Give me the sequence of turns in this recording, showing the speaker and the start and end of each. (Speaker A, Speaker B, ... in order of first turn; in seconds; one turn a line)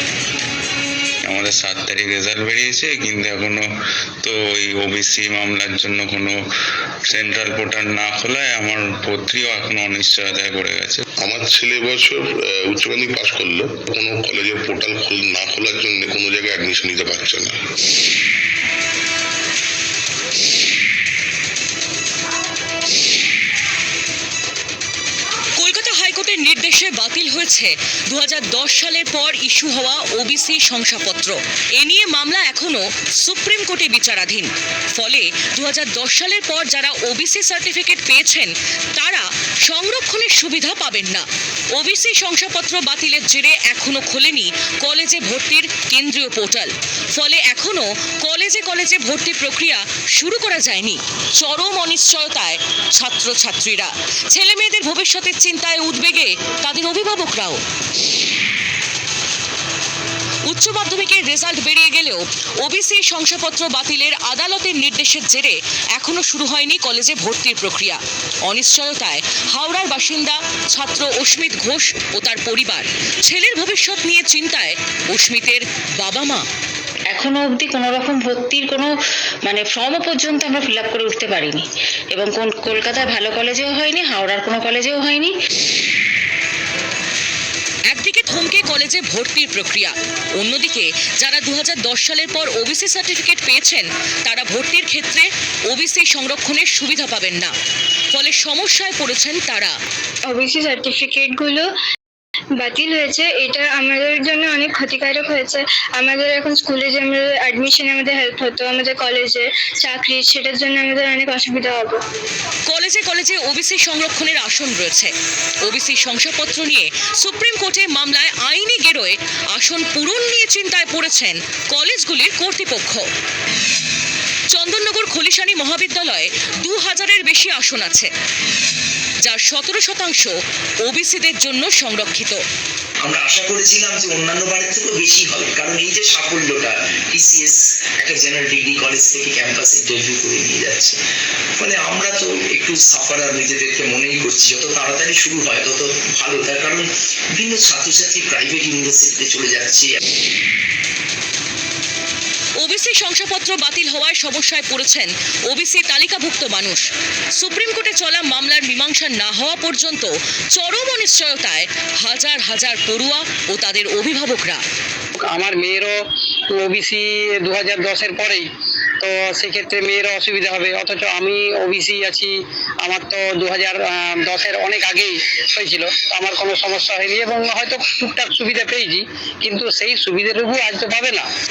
Speaker A: 1.3-3.6
Speaker A: 4.2-6.4
Speaker A: 7.1-11.1
Speaker B: 11.2-17.6
Speaker C: 25.6-57.6
Speaker C: 60.5-76.5
Speaker D: 77.1-85.3
Speaker C: 87.9-97.5
Speaker C: 98.1-99.8
Speaker E: 100.3-101.7
Speaker E: 102.6-112.0
Speaker C: 112.7-123.1
Speaker C: 124.5-128.1
Speaker C: 129.2-132.4
Speaker F: 133.0-141.0
Speaker F: 141.6-149.9
Speaker C: 152.6-164.6
Speaker G: 165.2-165.9
Speaker G: 166.5-168.5
Speaker G: 169.0-181.3